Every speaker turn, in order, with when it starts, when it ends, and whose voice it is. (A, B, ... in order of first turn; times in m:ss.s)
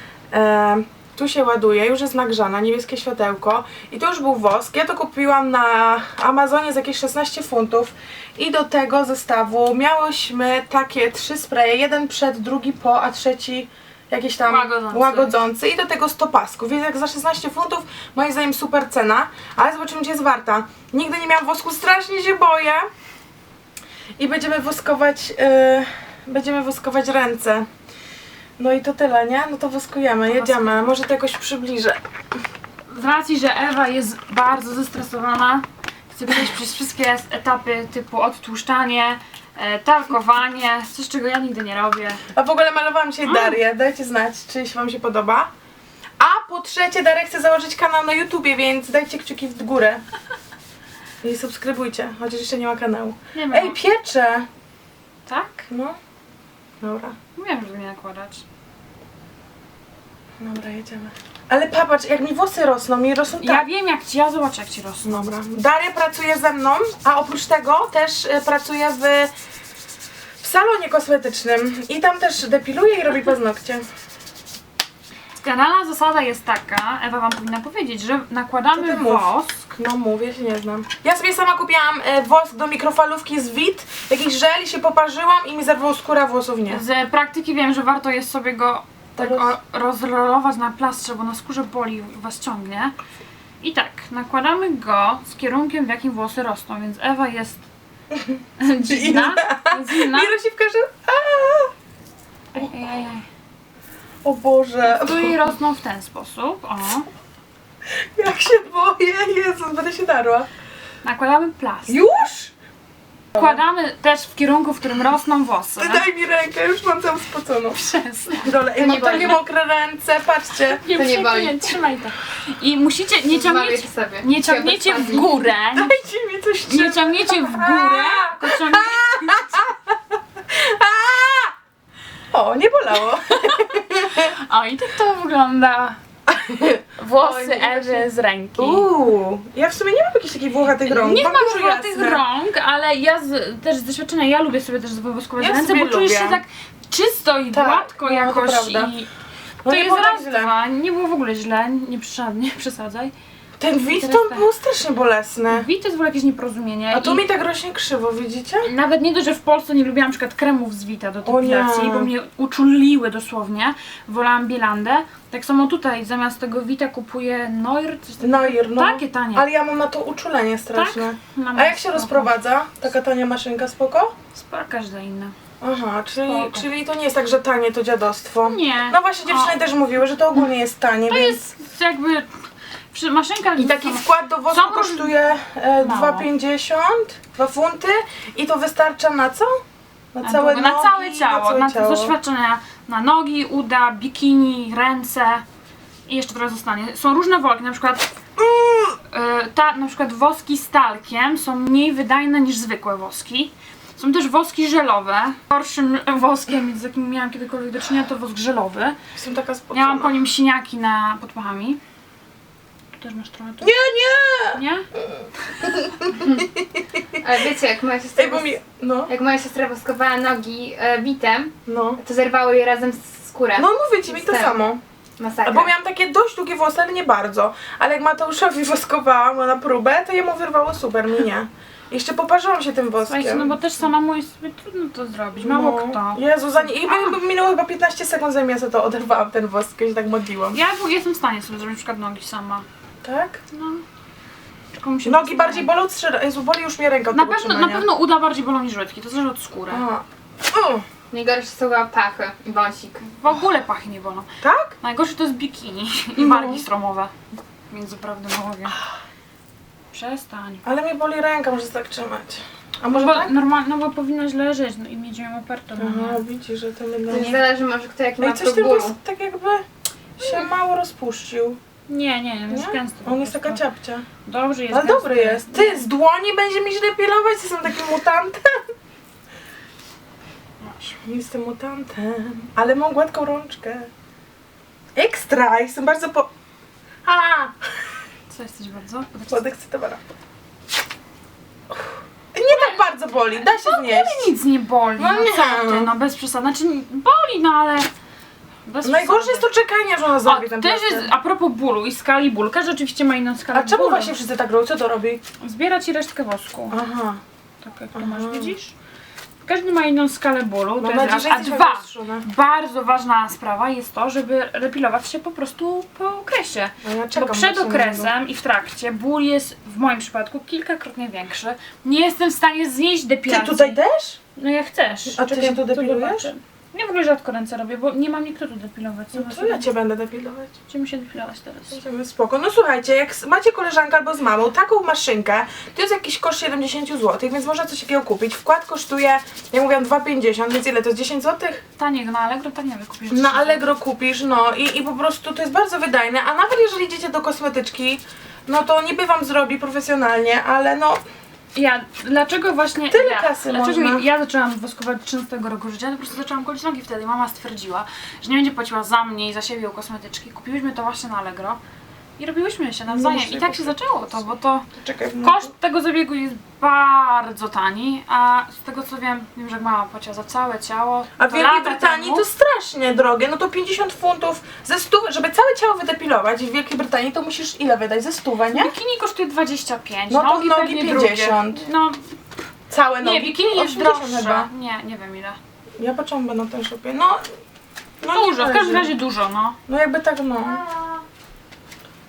0:00.3-0:22.8 A
0:14.4-0:15.4 B
0:24.2-0:27.7 A
0:28.6-0:32.0 A
0:30.3-0:30.9 B
0:32.9-0:42.2 B
0:42.3-0:45.5 A
0:43.2-0:43.6 B
0:46.2-0:50.0 A
0:51.2-0:54.5 A
0:53.3-0:53.8 B
0:55.3-0:55.7 B
0:55.7-0:56.0 A
0:56.8-0:57.1 A
0:57.4-0:58.4 B
1:00.4-1:03.6 A
1:03.4-1:05.3 B
1:05.0-1:09.3 A
1:10.4-1:13.8 A
1:15.4-1:19.7 B
1:18.7-1:26.8 A
1:26.7-1:32.9 B
1:29.2-1:29.5 A
1:33.6-1:37.6 B
1:38.1-1:41.7 A
1:38.6-1:40.4 B
1:42.5-1:43.2 B
1:44.2-1:45.4 A
1:44.8-1:47.1 B
1:48.2-1:50.5 A
1:51.0-1:52.0 B
1:51.9-1:52.5 A
1:53.3-1:56.1 B
1:55.8-1:57.8 A
1:57.7-1:59.4 B
1:58.3-2:00.8 A
1:58.8-1:59.4 C
2:00.7-2:06.0 B
2:00.9-2:01.8 C
2:03.3-2:05.4 C
2:05.7-2:11.5 A
2:06.7-2:09.6 B
2:12.3-2:14.3 A
2:13.6-2:16.0 B
2:16.3-2:18.0 A
2:17.0-2:18.9 B
2:18.6-2:22.2 A
2:20.8-2:29.1 B
2:25.4-2:26.4 A
2:27.5-2:28.9 A
2:29.6-2:30.5 A
2:29.6-2:33.1 B
2:33.6-2:35.7 A
2:33.9-2:34.4 B
2:35.5-2:37.2 B
2:36.9-2:38.7 A
2:38.6-2:49.4 B
2:41.2-2:42.1 A
2:48.2-2:54.1 A
2:50.7-2:52.4 B
2:54.3-2:55.3 B
2:55.6-3:01.4 A
2:56.2-2:56.7 B
2:58.4-2:59.6 B
3:01.1-3:02.3 B
3:02.9-3:05.1 B
3:03.6-3:09.5 A
3:05.8-3:06.3 B
3:10.1-3:12.1 A
3:10.2-3:15.4 B
3:16.1-3:18.1 B
3:18.5-3:18.9 A
3:19.1-3:29.0 B
3:29.2-3:30.2 A
3:29.7-3:31.8 B
3:32.9-3:33.7 B
3:33.6-3:37.2 A
3:34.5-3:34.8 B
3:37.2-3:38.5 C
3:38.2-3:39.1 A
3:39.1-3:44.6 C
3:41.7-3:42.0 A
3:43.6-3:44.8 A
3:45.2-3:45.7 C
3:45.4-3:53.6 A
3:53.1-3:57.2 B
3:55.4-4:00.6 A
4:00.5-4:02.6 B
4:03.0-4:03.4 A
4:03.5-4:03.8 B
4:04.7-4:05.7 B
4:05.0-4:07.9 A
4:07.1-4:09.8 B
4:09.7-4:10.8 A
4:11.1-4:13.0 C
4:13.0-4:14.3 B
4:14.4-4:14.7 A
4:14.8-4:17.1 B
4:16.2-4:16.6 A
4:17.7-4:18.8 B
4:19.9-4:20.6 B
4:20.6-4:23.3 A
4:22.9-4:26.2 B
4:25.8-4:27.4 A
4:27.1-4:29.0 C
4:27.1-4:27.4 B
4:28.2-4:29.6 A
4:30.2-4:31.6 A
4:31.9-4:33.6 B
4:32.5-4:34.0 A
4:34.2-4:35.8 B
4:34.7-4:38.6 A
4:40.8-4:43.9 A
4:44.9-4:46.3 A
4:47.0-4:47.5 A
4:48.3-4:49.4 B
4:49.3-4:50.0 A
4:52.3-4:54.3 A
4:52.4-4:57.9 B
4:55.0-4:55.9 A
4:58.6-4:59.5 B
4:58.8-5:01.1 A
5:00.2-5:04.2 B
5:03.5-5:05.2 A
5:05.4-5:06.8 B
5:06.7-5:07.2 A
5:07.6-5:08.7 B
5:07.9-5:08.5 A
5:09.4-5:23.8 B
5:10.8-5:12.2 A
5:16.8-5:18.1 A
5:23.3-5:24.2 A
5:24.4-5:29.7 B
5:25.1-5:26.3 A
5:29.1-5:30.5 A
5:30.7-5:31.8 B
5:31.7-5:41.6 A
5:41.8-5:43.6 B
5:43.1-5:51.0 A
5:51.5-6:01.6 B
5:52.9-5:54.0 A
6:02.2-6:04.7 B
6:02.9-6:03.7 A
6:04.8-6:05.5 A
6:05.2-6:12.2 B
6:11.2-6:18.7 A
6:18.5-6:22.1 B
6:20.1-6:21.6 A
6:22.7-6:24.5 A
6:23.0-6:25.4 B
6:25.8-6:27.2 A
6:28.0-6:28.9 A
6:28.1-6:29.6 B
6:29.7-6:30.6 A
6:30.6-6:30.9 B